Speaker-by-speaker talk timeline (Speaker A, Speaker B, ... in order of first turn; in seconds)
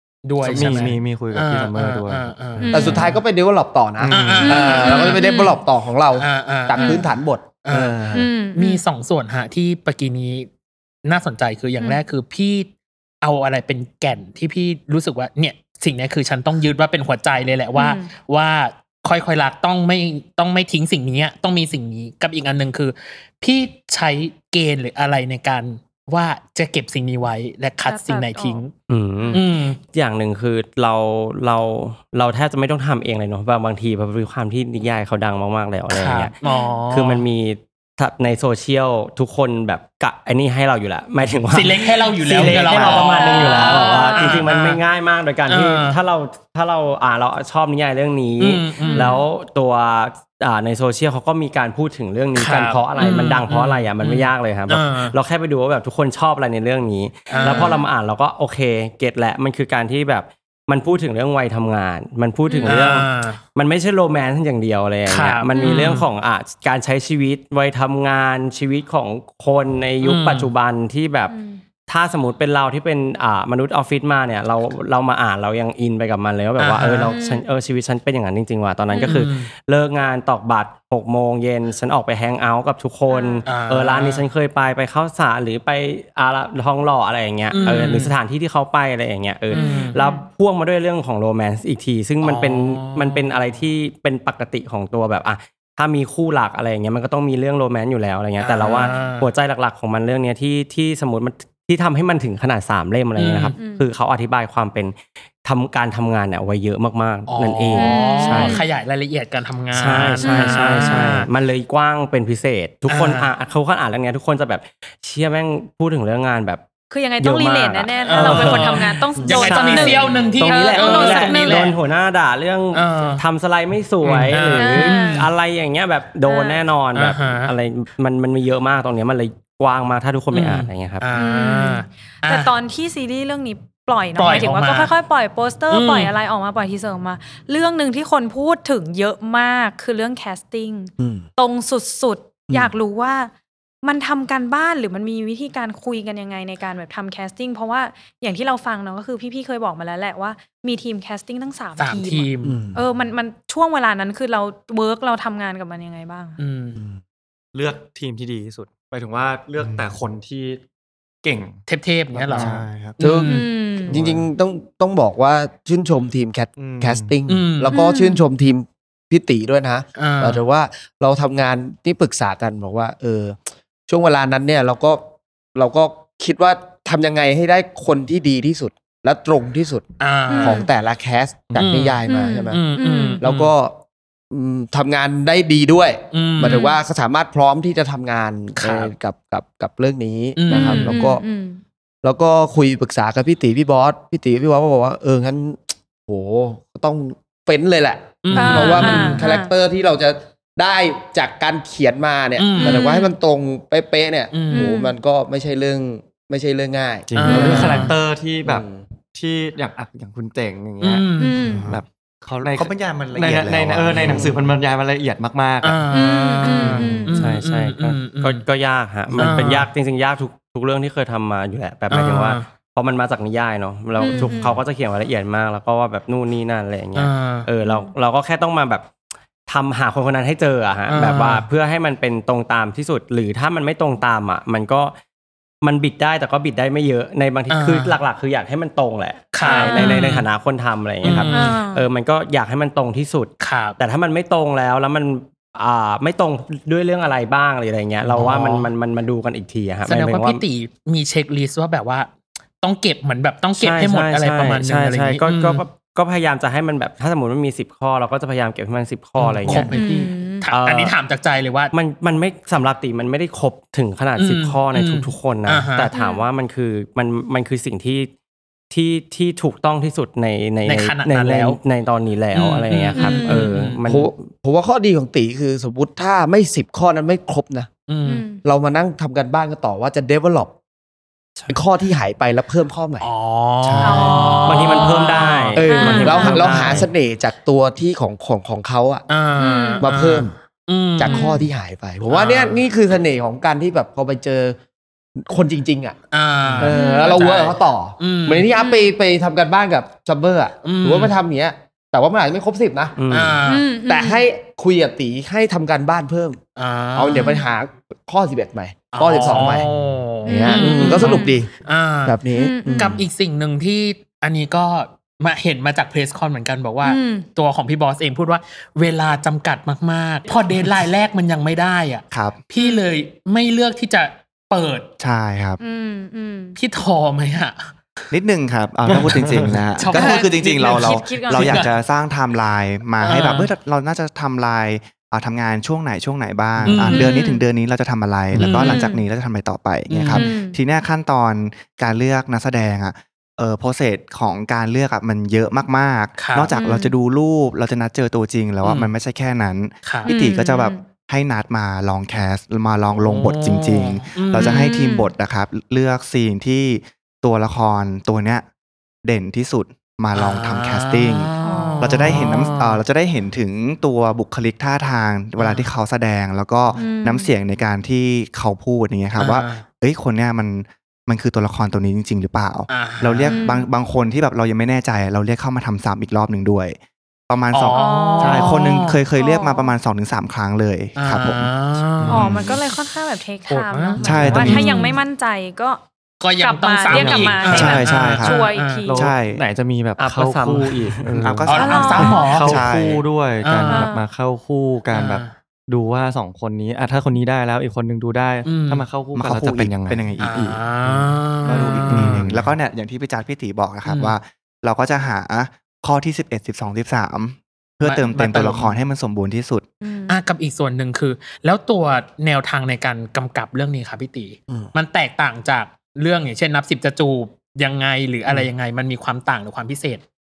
Speaker A: 0.2-3.2, 4.1-5.2, 6.2-7.0, 7.6-8.0, 8.5-10.5, 11.0-12.7, 13.2-28.7, 29.3-29.8, 35.9-37.2, 41.5-44.8, 45.5-46.0, 48.4-49.2, 52.4-55.1, 57.3-57.8, 62.6-63.4, 65.1-66.1, 70.0-70.5, 76.6-77.2, 79.0-79.5, 83.4-84.2, 87.5-88.1, 89.5-90.0, 92.2-93.4, 98.4-99.3, 103.2-103.6, 107.3-111.3, 112.9-113.3, 118.0-121.8, 122.7-123.2, 124.0-125.3, 126.9-127.5, 130.3-132.5, 134.1-134.9, 135.7-136.1, 151.8-152.6, 156.4-156.8, 161.7-163.5, 167.3-167.8, 169.9-170.4, 180.0-180.6, 181.6-183.5, 186.1-186.7, 188.6-188.9, 190.4-190.9, 198.2-199.3, 202.4-202.9, 204.3-204.7, 207.1-208.0, 210.8-211.4, 215.6-218.4, 219.1-219.7, 221.9-222.5, 226.9-227.5, 230.9-231.4, 237.5-238.0, 239.3-240.3, 241.0-241.6, 243.4-243.8, 248.1-248.7, 249.9-255.6, 259.2-261.7, 264.2-265.9, 270.6-271.6, 272.3-273.8, 277.9-278.3, 283.0-286.8, 289.1-291.4, 292.1-292.6, 296.1-298.5, 300.6-301.1, 303.1-303.7, 306.6-307.4, 308.9-312.2, 312.7-324.9, 326.6-327.7, 329.7-331.7, 333.0-333.5, 336.6-337.2, 338.4-338.9, 339.9-340.4, 346.2-346.6, 348.6-348.9, 349.8-350.1, 353.0-354.7, 360.1-362.8, 365.4-365.7, 369.1-369.6, 372.7-373.4, 377.5-379.0, 380.9-382.3, 383.5-384.9, 386.2-388.9, 391.4-392.6, 393.4-394.0, 394.9-395.3, 398.4-398.9, 400.2-402.3, 403.9-404.1, 407.8-408.8, 410.1-420.0
Speaker B: 0.4-2.4, 4.0-4.5, 42.5-43.0, 157.5-160.6, 161.2-161.6, 163.9-164.3, 166.6-167.1, 207.1-211.1, 211.6-215.8, 328.9-329.6, 386.9-388.1, 388.9-400.5, 401.9-402.5
Speaker C: 2.6-3.1, 4.4-5.6, 6.8-7.0, 8.1-8.8, 17.8-18.1, 27.8-28.6, 36.4-36.8, 43.0-44.5, 48.8-49.2, 57.4-57.9, 62.5-62.9, 65.5-66.0, 71.3-71.6, 77.1-77.4, 78.9-79.2, 83.1-83.4, 89.5-90.2, 103.6-103.8, 107.7-108.7, 110.2-111.1, 116.9-121.7, 124.6-125.3, 126.3-126.6, 131.1-143.3, 143.8-156.4, 163.3-163.9, 167.7-168.2, 180.3-180.7, 182.1-183.2, 190.5-191.6, 198.3-199.5, 202.6-203.1, 204.5-204.9, 211.2-211.7, 215.9-217.2, 224.0-224.6, 227.7-227.9, 239.4-240.1, 241.3-241.8, 259.7-260.5, 265.9-266.2, 272.9-273.5, 278.1-278.4, 283.8-286.4, 289.4-289.9, 291.1-291.4, 296.6-297.2, 298.6-298.9, 303.4-304.2, 307.1-307.4, 310.3-311.4, 312.3-313.0, 316.8-317.3, 322.6-322.8, 325.6-326.6, 329.9-331.7, 336.9-337.4, 338.6-339.0, 340.1-340.6, 346.6-346.9, 350.1-350.8, 354.4-355.1, 361.4-362.4, 366.8-367.3, 373.3-373.6, 377.7-379.7, 382.1-385.8, 386.4-389.0, 391.6-392.2, 393.7-394.0, 409.8-410.2
Speaker D: 2.7-8.3, 141.0-141.2, 152.4-152.8, 163.0-163.3, 163.9-175.0, 175.6-182.6, 183.2-183.8, 184.3-191.2, 192.0-207.9, 208.4-208.8, 273.9-277.7, 278.4-280.5, 281.5-283.1, 285.6-289.0, 289.8-290.3, 290.9-294.6, 295.2-296.0, 296.6-302.9, 303.8-306.4, 306.9-309.7, 310.3-311.5, 312.1-313.0
Speaker E: 28.9-36.3, 36.9-71.3, 71.9-108.6, 109.7-116.6, 117.2-131.1, 217.1-228.9, 229.5-234.9, 235.6-250.4, 253.6-259.8, 260.5-260.9, 261.7-268.1, 268.7-274.1, 284.4-286.9, 303.0-303.4, 390.0-391.1
Speaker F: 159.6-159.9, 162.3-163.0, 211.4-211.8, 212.4-214.5, 283.6-284.4, 322.1-322.4, 325.0-325.6, 328.1-358.4, 359.0-376.8, 377.3-381.5, 382.0-382.6, 384.0-384.8, 387.5-388.4, 388.9-389.4, 391.1-393.1, 399.1-400.6, 401.4-409.6